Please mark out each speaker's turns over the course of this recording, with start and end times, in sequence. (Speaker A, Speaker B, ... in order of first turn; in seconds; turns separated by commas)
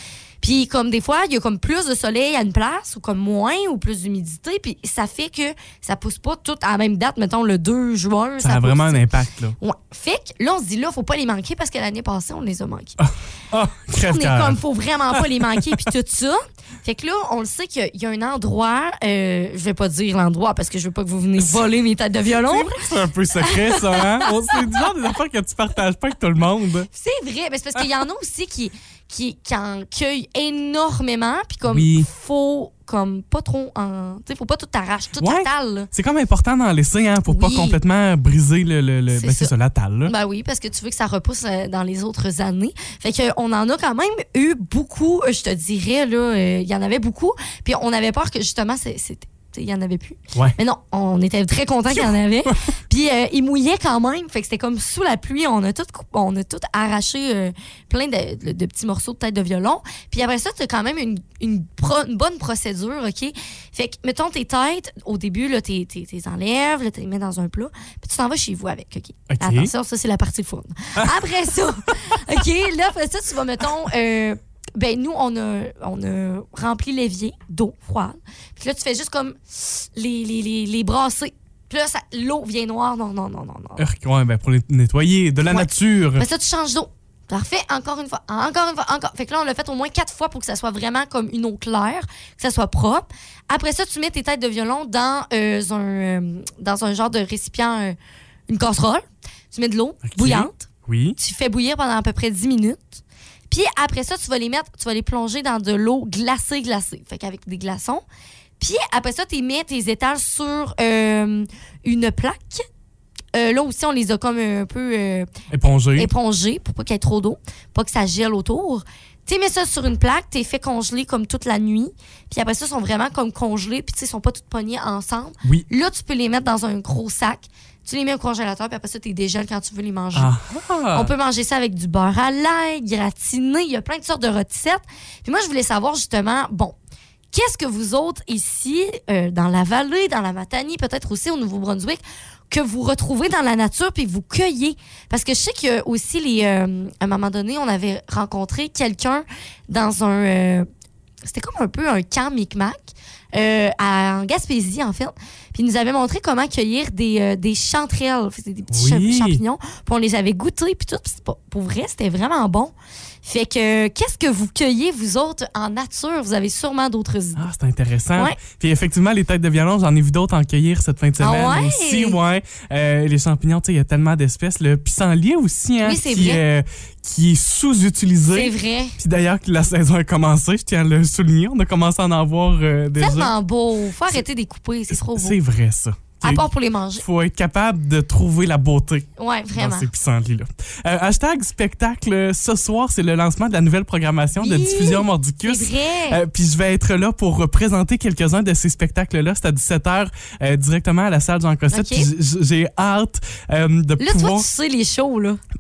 Speaker A: 0.4-13.0, Speaker B: 8.4-9.6, Speaker B: 13.0-14.6, Speaker A: 14.0-22.8, Speaker B: 15.1-15.6, Speaker B: 22.4-26.9, Speaker A: 23.4-24.6, Speaker A: 26.9-35.9, Speaker B: 31.7-32.1, Speaker B: 35.2-40.1, Speaker A: 37.3-37.8, Speaker A: 39.1-39.5, Speaker A: 40.0-83.8, Speaker B: 69.3-69.7, Speaker B: 83.8-86.2, Speaker A: 85.5-98.0, Speaker A: 98.5-100.6, Speaker B: 100.0-101.2, Speaker A: 101.2-108.0, Speaker A: 108.6-112.6, Speaker A: 113.3-115.3, Speaker B: 115.5-116.1, Speaker A: 116.0-130.3, Speaker B: 130.1-131.1, Speaker A: 130.9-136.8, Speaker A: 137.3-150.7, Speaker A: 151.2-167.4, Speaker B: 158.7-159.4, Speaker B: 167.3-183.3, Speaker A: 171.2-172.2, Speaker A: 175.8-176.4, Speaker A: 178.3-178.9, Speaker A: 183.0-185.4, Speaker B: 184.9-186.4, Speaker A: 186.2-187.0, Speaker B: 187.0-204.4, Speaker A: 189.2-189.9, Speaker A: 194.3-196.2, Speaker A: 201.7-202.1, Speaker A: 204.0-205.4